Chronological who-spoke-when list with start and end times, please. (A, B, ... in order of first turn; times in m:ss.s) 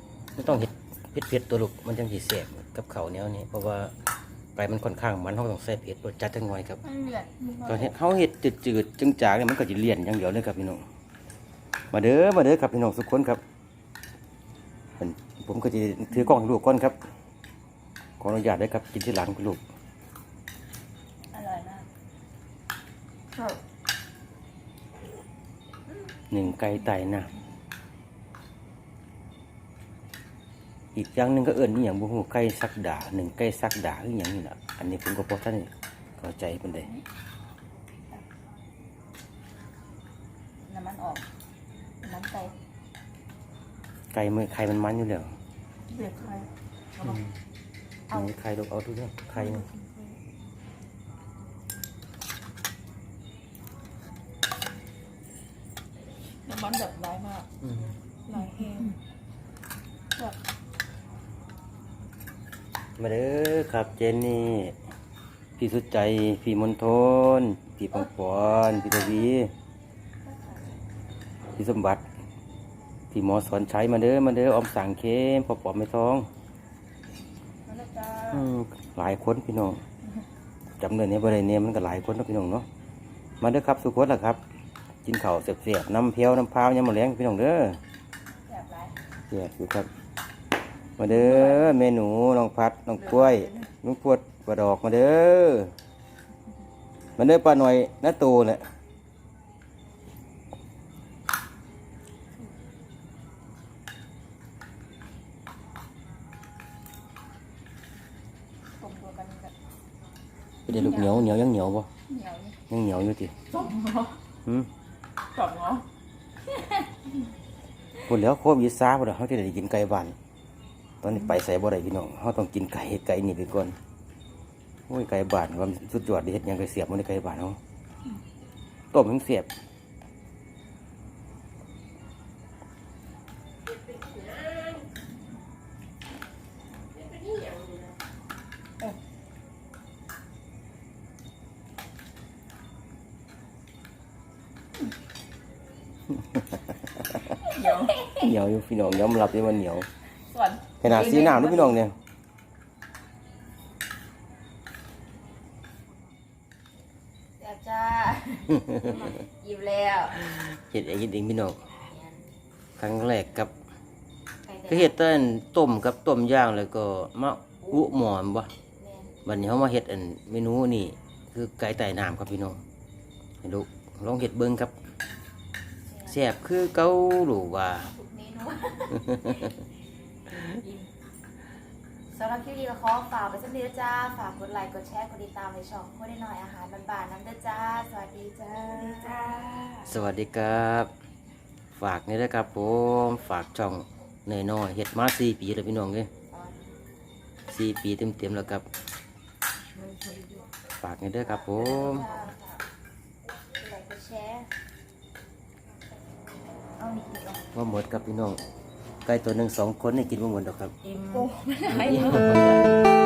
0:00.4-0:03.9 A
0:04.6-0:06.8 A
0:06.8-0:08.0 B
0:07.6-0:10.8 A
0:11.9-0:13.4 A
0:15.0-0:17.0 A
0:18.2-0:19.6 A
0:21.3-0:21.9 B
0:26.3-0:27.3 A
0:31.0-0:36.9 A
0:40.7-0:41.2 B
0:42.0-0:42.5 B
0:44.1-0:45.3 A
0:45.9-0:47.2 B
0:47.0-0:47.3 A
0:48.1-0:49.7 A
0:49.4-0:50.2 B
0:56.5-0:57.5 B
0:57.6-0:57.9 A
0:58.2-0:59.0 B
1:03.0-1:04.8 A
1:05.6-1:09.5 A
1:10.3-1:10.6 B
1:11.6-1:12.0 A
1:13.1-1:16.3 A
1:17.6-1:18.5 B
1:18.3-1:19.8 A
1:20.8-1:22.7 A
1:23.4-1:24.4 A
1:25.0-1:27.8 A
1:28.5-1:28.9 B
1:29.3-1:29.9 A
1:31.0-1:35.7 A
1:31.0-1:31.8 B
1:33.0-1:33.7 B
1:37.2-1:38.6 A
1:48.8-1:49.5 B
1:50.7-1:51.9 A
1:50.7-1:51.3 B
1:52.1-1:52.6 B
1:52.7-1:53.4 A
1:53.5-1:54.2 B
1:55.4-1:55.8 B
1:58.0-2:00.2 A
2:01.0-2:03.8 A
2:04.9-2:07.6 A
2:08.9-2:09.5 A
2:26.1-2:27.4 A
2:27.4-2:28.1 B
2:27.6-2:28.2 C
2:28.0-2:29.9 A
2:30.3-2:31.8 B
2:30.8-2:32.0 A
2:37.4-2:40.4 C
2:38.5-2:39.1 A
2:40.1-2:41.6 A
2:41.8-2:42.2 C
2:42.8-2:43.5 A
2:44.4-2:45.0 C
2:44.7-2:48.5 A
2:48.8-2:49.2 C
2:49.2-2:52.6 A
2:53.4-2:54.7 A
2:55.9-2:56.2 C
2:56.1-2:57.9 A
2:57.9-2:59.2 C
2:58.9-2:59.5 A
3:00.6-3:00.9 B
3:02.1-3:09.6 C
3:08.7-3:09.9 B
3:09.8-3:10.9 A
3:11.8-3:16.1 A
3:16.3-3:16.6 C
3:17.5-3:18.7 A
3:20.8-3:22.1 A
3:21.2-3:22.6 C
3:21.8-3:22.2 B
3:23.6-3:24.5 C
3:26.8-3:27.3 C
3:26.8-3:27.4 B
3:27.5-3:28.4 A
3:29.0-3:30.7 A
3:30.8-3:32.5 B
3:31.0-3:31.3 C
3:31.7-3:32.9 A